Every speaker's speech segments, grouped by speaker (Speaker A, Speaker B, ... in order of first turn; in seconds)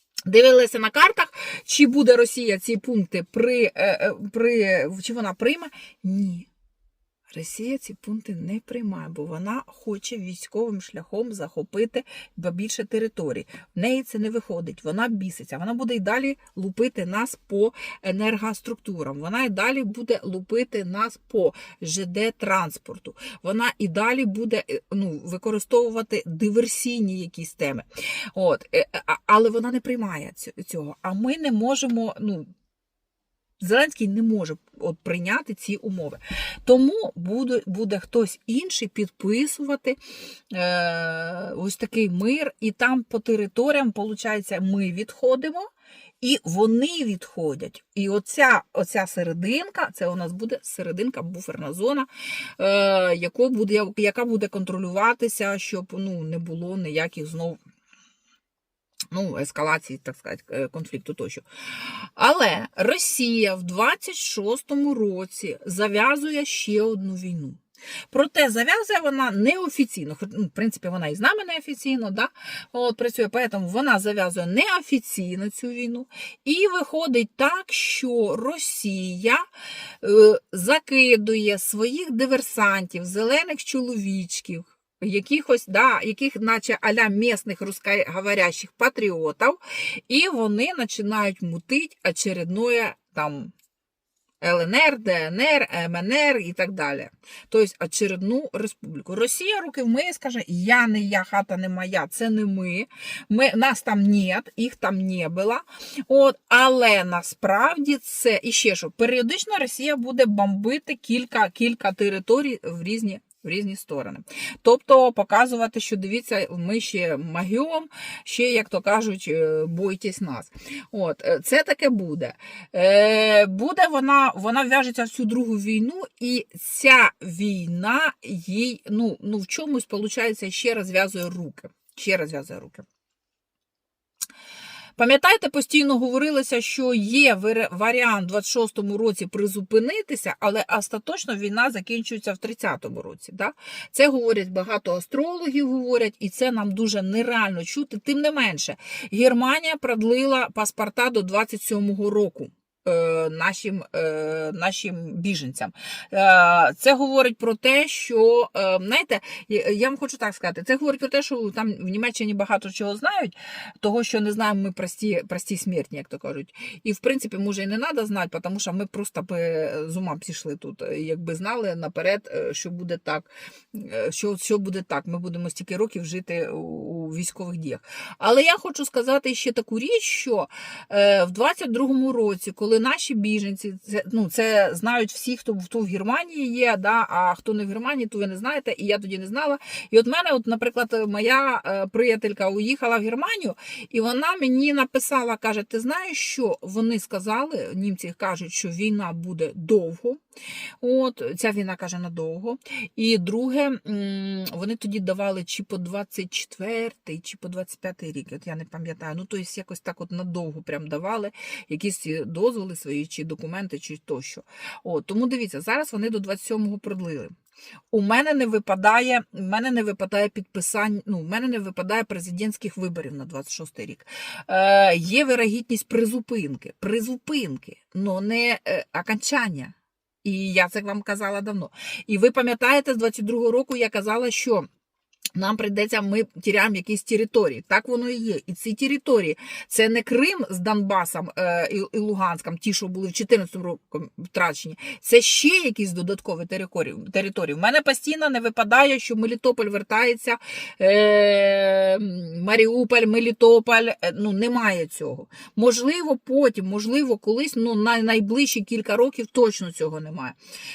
Speaker A: 0.2-6.5, 7.3-32.5, 33.6-40.0, 40.5-45.7, 46.2-57.6, 59.1-67.6, 68.1-79.4, 80.0-93.5, 94.4-132.8, 135.0-200.2, 200.8-217.3, 217.9-234.7, 235.3-260.4